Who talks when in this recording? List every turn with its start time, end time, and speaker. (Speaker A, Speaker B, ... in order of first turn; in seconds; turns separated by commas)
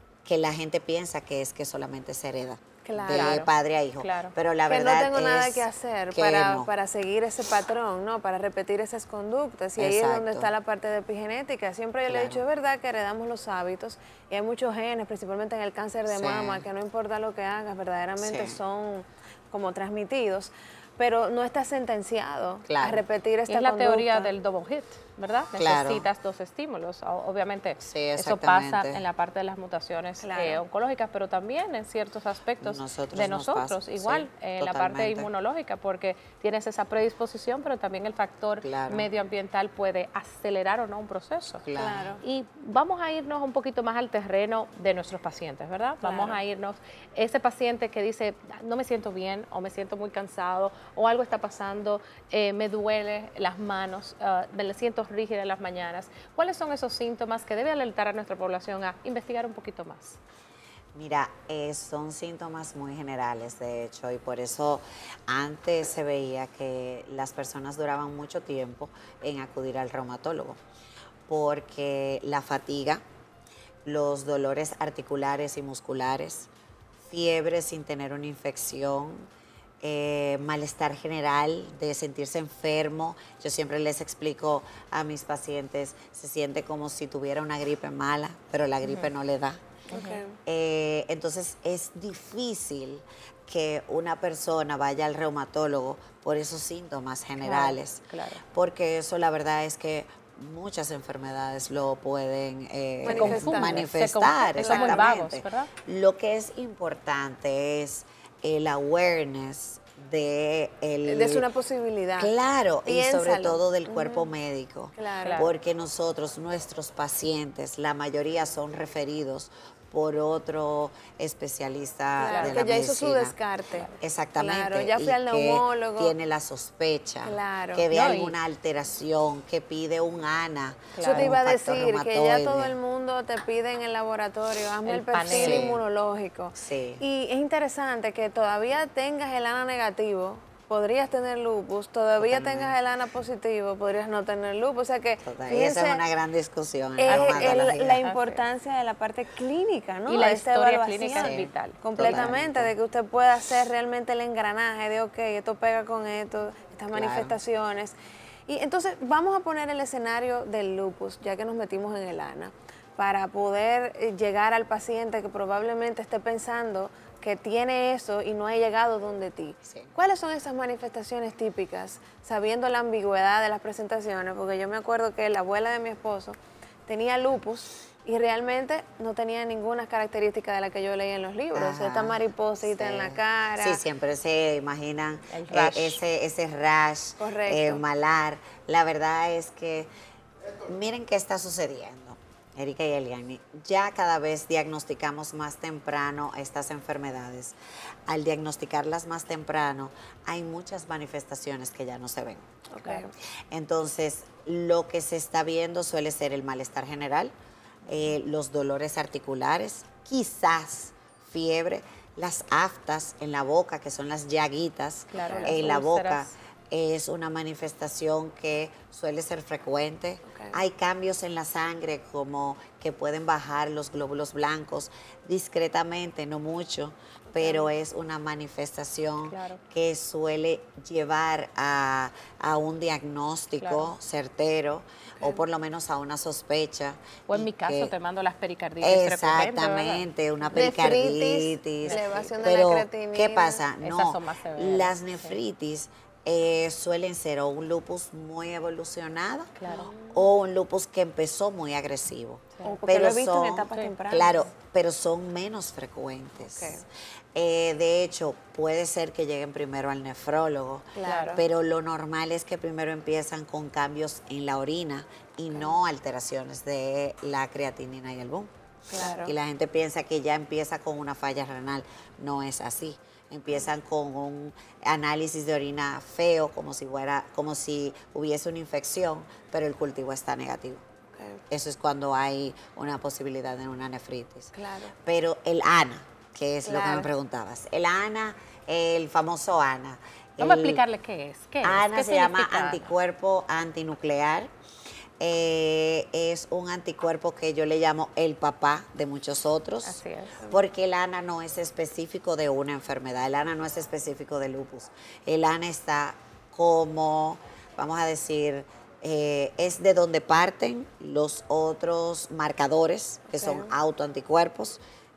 Speaker A: 0.2-6.7, Speaker B: 2.8-3.4, Speaker C: 3.1-3.5, Speaker C: 4.0-4.3, Speaker B: 4.7-24.3, Speaker A: 9.8-10.5, Speaker A: 12.1-12.4, Speaker A: 16.1-16.6, Speaker A: 18.2-18.6, Speaker A: 22.7-23.0, Speaker C: 23.5-41.6, Speaker A: 25.5-26.1, Speaker A: 27.8-29.0, Speaker B: 30.2-30.6, Speaker A: 32.6-35.3, Speaker A: 38.6-39.1, Speaker A: 41.6-42.1, Speaker B: 41.7-42.2, Speaker C: 42.2-60.2, Speaker B: 46.0-46.4, Speaker A: 60.9-70.6, Speaker A: 71.3-73.0, Speaker A: 73.8-76.5, Speaker A: 77.0-79.3, Speaker A: 79.8-89.6, Speaker C: 88.8-89.1, Speaker C: 89.9-90.2, Speaker B: 89.9-90.4, Speaker A: 90.4-111.5, Speaker C: 97.4-98.4, Speaker B: 103.0-103.8, Speaker C: 103.0-105.7, Speaker B: 104.6-105.1, Speaker B: 111.0-112.3, Speaker A: 112.2-123.3, Speaker B: 112.8-114.3, Speaker B: 115.0-115.5, Speaker C: 115.2-115.5, Speaker B: 122.2-126.1, Speaker C: 122.3-122.6, Speaker A: 123.9-132.8, Speaker B: 127.2-127.8, Speaker C: 127.9-128.3, Speaker C: 130.9-131.3, Speaker B: 131.0-146.0, Speaker C: 134.8-135.7, Speaker A: 135.3-135.8, Speaker A: 136.6-137.0, Speaker A: 142.2-142.8, Speaker A: 145.2-148.0, Speaker B: 147.0-157.9, Speaker C: 147.1-148.4, Speaker C: 150.1-152.3, Speaker A: 151.2-152.7, Speaker A: 156.9-157.3, Speaker B: 158.5-183.8, Speaker A: 169.6-169.9, Speaker A: 181.5-189.9, Speaker C: 185.3-186.0, Speaker B: 187.2-187.8, Speaker A: 190.6-202.4, Speaker B: 202.7-203.1, Speaker A: 203.5-207.3, Speaker A: 207.9-237.9, Speaker C: 215.1-216.3, Speaker B: 215.2-215.6, Speaker B: 220.3-220.6, Speaker B: 227.3-227.7, Speaker C: 229.3-229.6, Speaker C: 233.6-233.9, Speaker C: 237.3-240.1, Speaker A: 238.8-256.8, Speaker B: 240.5-243.6, Speaker C: 241.8-242.3, Speaker C: 243.8-245.3, Speaker C: 249.6-249.9, Speaker B: 249.7-250.2, Speaker B: 252.6-254.3, Speaker B: 256.4-256.8, Speaker A: 257.3-280.8, Speaker B: 260.9-261.4, Speaker C: 261.0-261.4, Speaker B: 268.9-269.3, Speaker B: 281.1-281.4, Speaker A: 281.5-284.5, Speaker B: 284.5-284.9, Speaker A: 285.0-290.8, Speaker B: 286.6-287.1, Speaker C: 290.4-292.9, Speaker A: 291.6-294.5, Speaker A: 295.2-314.8, Speaker C: 299.8-300.4, Speaker B: 313.3-313.7